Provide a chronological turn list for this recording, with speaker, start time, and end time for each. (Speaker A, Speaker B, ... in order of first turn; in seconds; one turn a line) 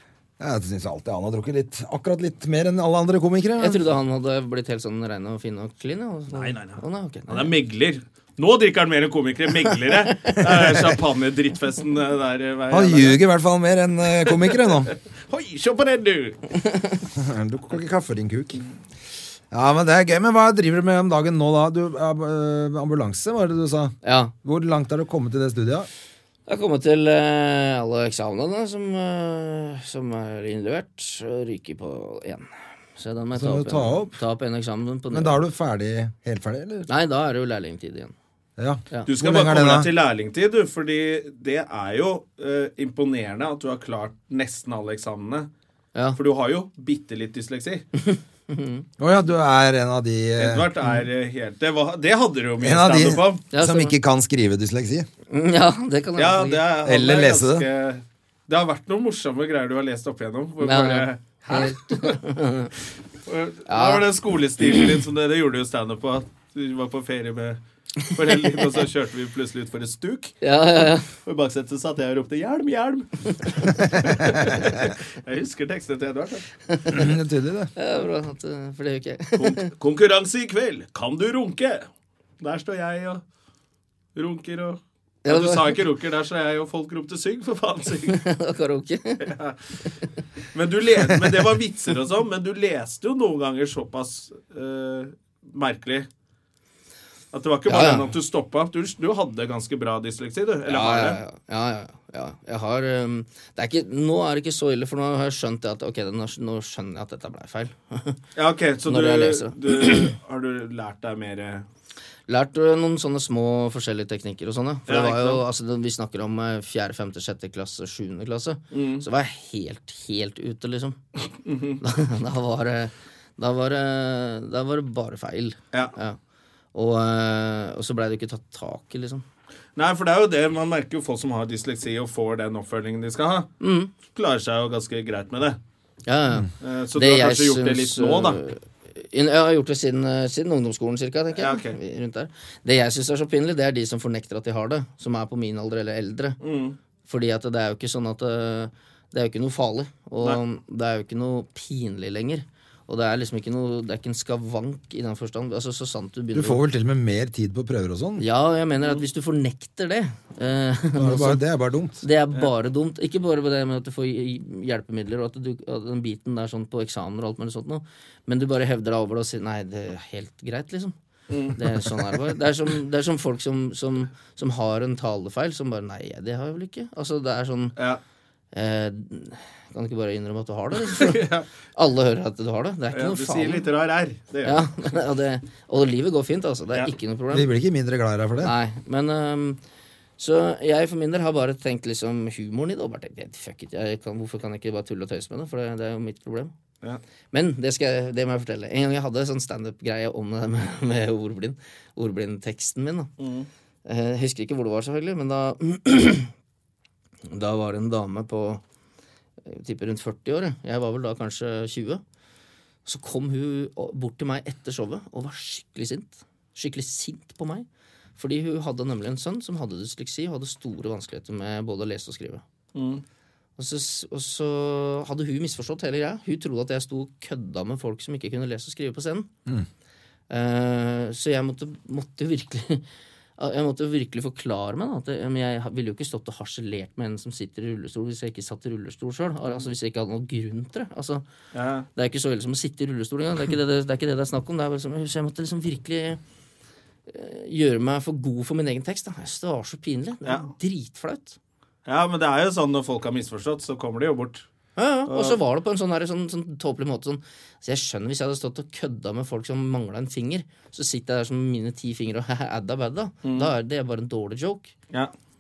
Speaker A: 0.4-3.9
Speaker B: 3.6-7.5
Speaker C: 6.3-13.2
Speaker B: 9.9-10.4
Speaker A: 12.7-14.9
Speaker C: 14.3-16.4
Speaker A: 17.1-18.6
Speaker A: 19.5-25.9
Speaker B: 24.0-24.3
Speaker B: 26.5-35.4
Speaker A: 33.4-34.2
Speaker A: 35.1-36.9
Speaker B: 36.9-38.1
Speaker A: 38.6-39.9
Speaker C: 39.1-45.5
Speaker C: 46.1-47.9
Speaker B: 48.0-48.9
Speaker A: 49.0-50.7
Speaker C: 50.4-53.4
Speaker A: 52.6-55.1
Speaker B: 53.5-54.0
Speaker B: 55.3-56.7
Speaker C: 56.2-62.2
Speaker A: 56.8-57.7
Speaker B: 60.6-62.7
Speaker C: 63.3-70.4
Speaker B: 63.7-64.1
Speaker B: 64.6-64.9
Speaker B: 70.4-71.1
Speaker C: 71.1-76.5
Speaker B: 73.5-73.9
Speaker B: 76.7-77.1
Speaker A: 76.9-77.7
Speaker B: 77.8-79.7
Speaker C: 79.4-81.9
Speaker C: 82.4-83.2
Speaker C: 84.2-88.2
Speaker B: 85.2-85.8
Speaker B: 88.1-89.3
Speaker C: 89.2-89.6
Speaker C: 90.5-96.1
Speaker C: 97.3-101.2
Speaker B: 97.7-98.1
Speaker B: 100.7-108.2
Speaker C: 108.4-111.7
Speaker B: 108.8-110.2
Speaker B: 112.3-121.0
Speaker C: 114.9-115.4
Speaker C: 118.7-119.0
Speaker C: 121.5-121.8
Speaker B: 121.8-126.2
Speaker B: 126.7-129.2
Speaker C: 129.8-133.5
Speaker B: 133.6-133.9
Speaker C: 134.1-135.6
Speaker B: 136.1-146.4
Speaker C: 136.6-138.4
Speaker C: 141.3-141.8
Speaker C: 146.4-146.8
Speaker B: 147.1-156.6
Speaker A: 156.3-158.2
Speaker B: 158.2-161.4
Speaker A: 161.0-162.0
Speaker B: 162.0-170.9
Speaker C: 171.3-172.0
Speaker B: 171.5-177.8
Speaker C: 177.8-178.0
Speaker B: 178.5-181.2
Speaker C: 180.8-181.5
Speaker B: 181.8-183.7
Speaker C: 182.9-184.7
Speaker B: 184.4-187.5
Speaker A: 187.3-188.5
Speaker B: 188.4-189.6
Speaker B: 190.2-196.5
Speaker B: 197.3-203.1
Speaker C: 203.2-203.5
Speaker B: 203.9-206.3
Speaker B: 207.3-208.6
Speaker B: 209.4-212.0
Speaker B: 212.8-217.7
Speaker B: 218.2-222.4
Speaker C: 222.8-223.0
Speaker B: 223.6-229.3
Speaker B: 230.3-232.8
Speaker B: 233.4-241.2
Speaker C: 241.5-241.9
Speaker B: 242.0-246.2
Speaker B: 247.1-251.4
Speaker C: 250.2-250.5
Speaker C: 251.8-254.5
Speaker B: 254.8-264.7
Speaker C: 255.1-255.4
Speaker C: 263.2-263.5